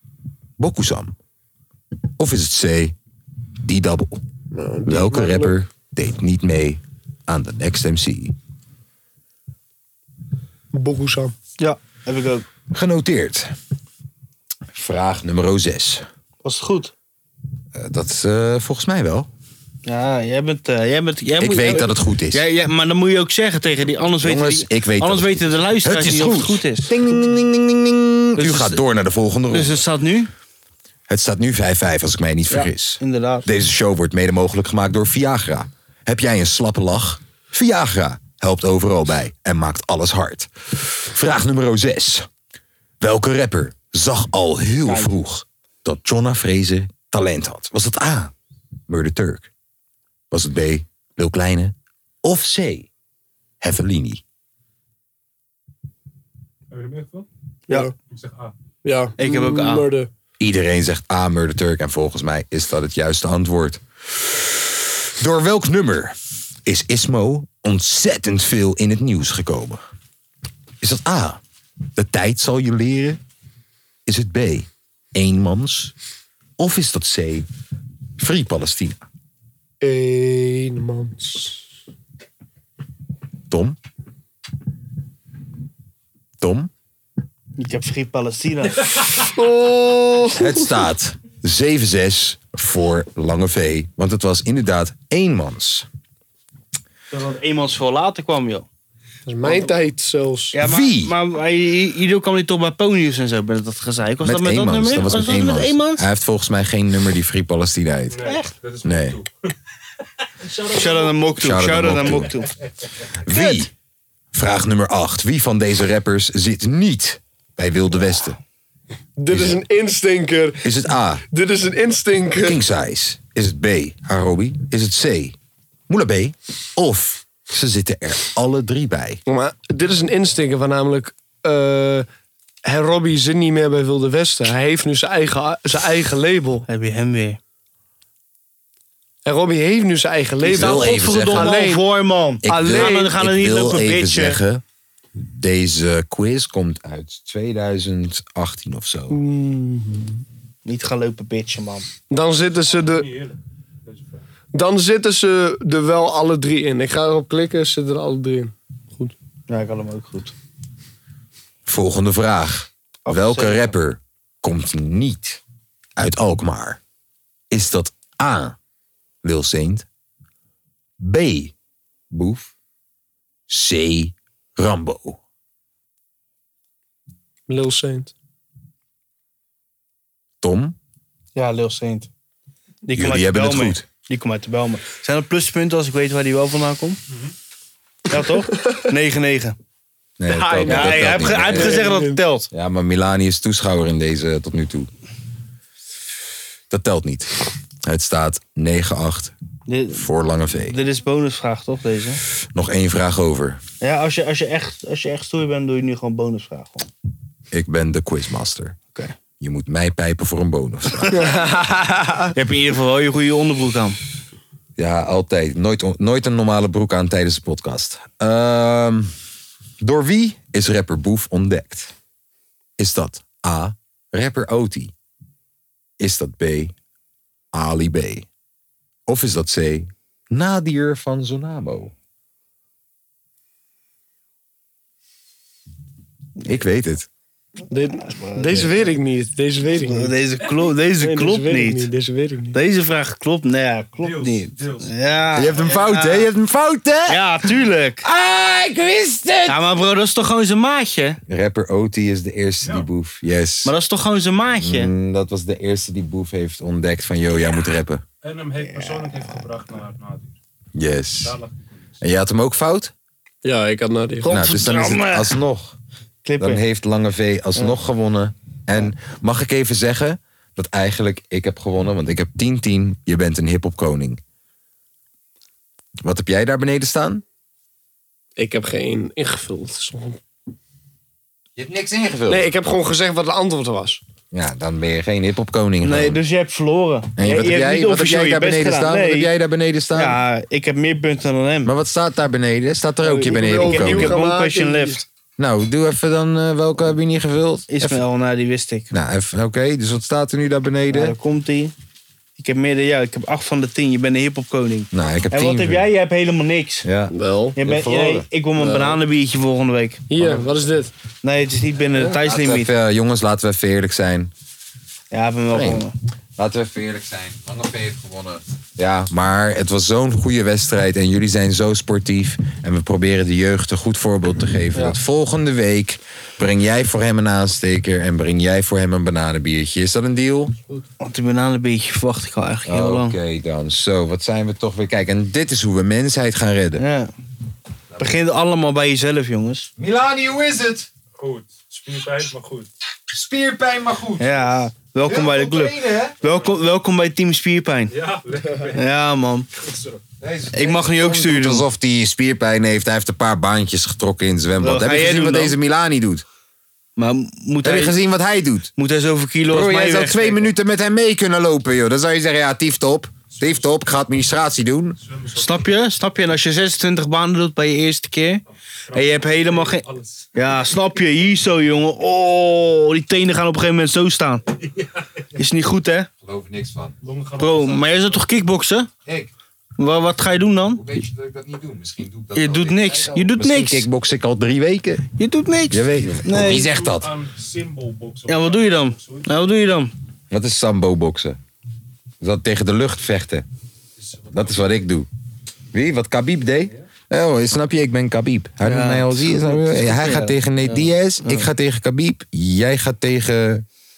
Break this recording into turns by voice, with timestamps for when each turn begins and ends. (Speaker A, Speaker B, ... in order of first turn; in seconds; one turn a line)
Speaker A: 0.6-1.1
Speaker A: 2.2-3.0
Speaker A: 3.6-4.2
Speaker B: 4.5-5.6
Speaker A: 4.9-8.3
Speaker B: 10.7-11.3
Speaker C: 11.6-12.5
Speaker A: 12.7-13.5
Speaker A: 14.7-16.1
Speaker C: 16.4-16.9
Speaker A: 17.8-19.3
Speaker C: 19.9-26.9
Speaker A: 21.4-22.4
Speaker A: 24.2-29.8
Speaker C: 28.4-28.8
Speaker C: 29.5-30.3
Speaker A: 31.1-42.3
Speaker C: 32.5-33.5
Speaker A: 43.0-48.3
Speaker C: 44.9-45.1
Speaker A: 48.9-49.5
Speaker A: 50.3-52.9
Speaker A: 53.6-54.2
Speaker D: 56.7-57.3
Speaker D: 58.1-58.5
Speaker B: 58.8-60.1
Speaker C: 59.2-59.9
Speaker A: 60.4-69.8
Speaker A: 70.8-71.4
Speaker A: 72.0-73.2
Speaker A: 74.1-75.9
Speaker A: 76.6-77.5
Speaker A: 78.2-79.0
Speaker B: 79.8-81.6
Speaker A: 83.5-83.8
Speaker A: 86.4-86.7
Speaker C: 87.6-89.2
Speaker B: 89.3-90.7
Speaker A: 90.4-95.9
Speaker C: 97.1-98.7
Speaker B: 99.3-100.6
Speaker C: 100.5-106.0
Speaker A: 100.6-101.2
Speaker A: 104.2-108.3
Speaker D: 108.1-109.3
Speaker C: 108.2-108.5
Speaker A: 108.8-109.2
Speaker D: 110.4-111.2
Speaker C: 110.7-112.5
Speaker A: 111.4-112.4
Speaker A: 113.2-113.7
Speaker C: 113.3-113.7
Speaker A: 114.3-118.4
Speaker B: 119.2-120.8
Speaker A: 119.3-119.6
Speaker A: 120.6-121.2
Speaker B: 121.3-122.6
Speaker A: 122.4-125.4
Speaker A: 125.9-129.2
Speaker B: 129.3-132.1
Speaker B: 132.7-136.7
Speaker C: 136.7-137.4
Speaker B: 139.2-141.8
Speaker A: 140.4-141.6
Speaker C: 140.5-144.4
Speaker A: 142.4-144.6
Speaker B: 142.5-143.1
Speaker A: 145.2-149.2
Speaker B: 149.1-150.2
Speaker C: 150.7-151.9
Speaker B: 152.1-153.1
Speaker D: 152.7-154.2
Speaker B: 154.5-159.1
Speaker C: 159.5-160.3
Speaker A: 161.7-165.4
Speaker C: 163.1-163.7
Speaker A: 166.0-166.8
Speaker A: 167.5-168.6
Speaker A: 169.2-169.9
Speaker A: 171.0-171.5
Speaker A: 172.1-172.5
Speaker A: 173.5-175.2
Speaker B: 177.5-178.1
Speaker A: 180.4-180.8
Speaker C: 181.4-182.1
Speaker C: 182.9-187.0
Speaker A: 182.9-183.8
Speaker C: 188.1-189.6
Speaker A: 190.2-191.8
Speaker B: 190.3-192.2
Speaker C: 190.7-192.5
Speaker A: 192.5-194.9
Speaker A: 196.7-199.3
Speaker C: 199.7-200.1
Speaker A: 199.9-200.8
Speaker C: 200.7-202.2
Speaker A: 202.5-203.6
Speaker C: 203.8-206.9
Speaker A: 207.5-208.8
Speaker A: 209.4-211.3
Speaker B: 211.2-212.3
Speaker C: 212.3-214.0
Speaker A: 214.8-219.1
Speaker A: 219.8-221.9
Speaker A: 222.8-224.9
Speaker A: 226.0-226.7
Speaker A: 227.5-228.3
Speaker A: 229.1-231.9
Speaker A: 236.4-237.1
Speaker B: 237.7-240.2
Speaker C: 238.1-238.8
Speaker C: 239.8-241.9
Speaker B: 241.0-242.6
Speaker C: 242.5-246.3
Speaker D: 244.0-244.9
Speaker A: 245.3-247.2
Speaker C: 247.1-248.0
Speaker A: 248.0-249.6
Speaker C: 249.5-251.2
Speaker A: 251.3-253.7
Speaker D: 252.6-252.9
Speaker C: 253.7-254.9
Speaker A: 254.6-258.0
Speaker D: 258.2-260.4
Speaker C: 258.7-259.4
Speaker A: 260.8-261.4
Speaker D: 261.2-261.9
Speaker A: 262.0-262.9
Speaker B: 263.4-264.3
Speaker C: 264.2-265.4
Speaker A: 264.3-265.8
Speaker C: 266.2-266.6
Speaker A: 266.4-274.2
Speaker A: 276.0-277.2
Speaker B: 278.4-280.2
Speaker A: 281.6-282.5
Speaker B: 282.3-284.0
Speaker A: 284.3-286.2
Speaker C: 285.8-289.3
Speaker A: 287.2-290.2
Speaker C: 289.9-291.7
Speaker A: 291.6-294.2
Speaker C: 293.1-295.0
Speaker B: 293.1-295.0
Speaker A: 295.4-298.0
Speaker C: 297.7-298.9
Speaker A: 298.9-301.2
Speaker C: 300.9-301.7
Speaker C: 302.4-306.9
Speaker A: 304.9-305.9
Speaker A: 306.8-308.3
Speaker B: 307.1-307.6
Speaker C: 307.6-310.4
Speaker B: 308.6-309.0
Speaker B: 310.1-310.9
Speaker C: 311.2-312.7
Speaker A: 311.9-314.3
Speaker C: 315.1-315.9
Speaker A: 315.5-315.9
Speaker A: 316.4-330.6
Speaker C: 331.0-333.2
Speaker A: 332.7-336.8
Speaker C: 336.8-337.1
Speaker C: 338.0-339.7
Speaker A: 339.8-340.9
Speaker D: 341.2-342.7
Speaker A: 343.1-344.3
Speaker C: 344.2-347.9
Speaker A: 345.0-346.2
Speaker D: 347.9-348.8
Speaker C: 348.7-349.5
Speaker D: 349.6-350.0
Speaker A: 350.2-356.2
Speaker C: 350.5-351.7
Speaker C: 354.6-355.6
Speaker C: 357.0-358.0
Speaker A: 357.6-358.7
Speaker C: 358.8-360.5
Speaker A: 359.5-365.0
Speaker D: 363.4-363.7
Speaker D: 365.1-365.6
Speaker C: 365.4-368.4
Speaker D: 368.9-370.3
Speaker C: 368.9-374.4
Speaker C: 375.4-376.1
Speaker A: 376.2-376.9
Speaker D: 377.0-378.3
Speaker C: 377.4-378.9
Speaker A: 379.1-379.3
Speaker C: 379.8-380.8
Speaker A: 380.7-385.1
Speaker C: 382.4-383.9
Speaker C: 385.2-386.7
Speaker A: 385.7-387.1
Speaker D: 386.5-389.3
Speaker C: 388.3-389.9
Speaker A: 390.3-391.4
Speaker A: 392.2-393.5
Speaker D: 394.0-394.8
Speaker A: 394.3-395.1
Speaker A: 395.7-403.6
Speaker C: 398.6-401.5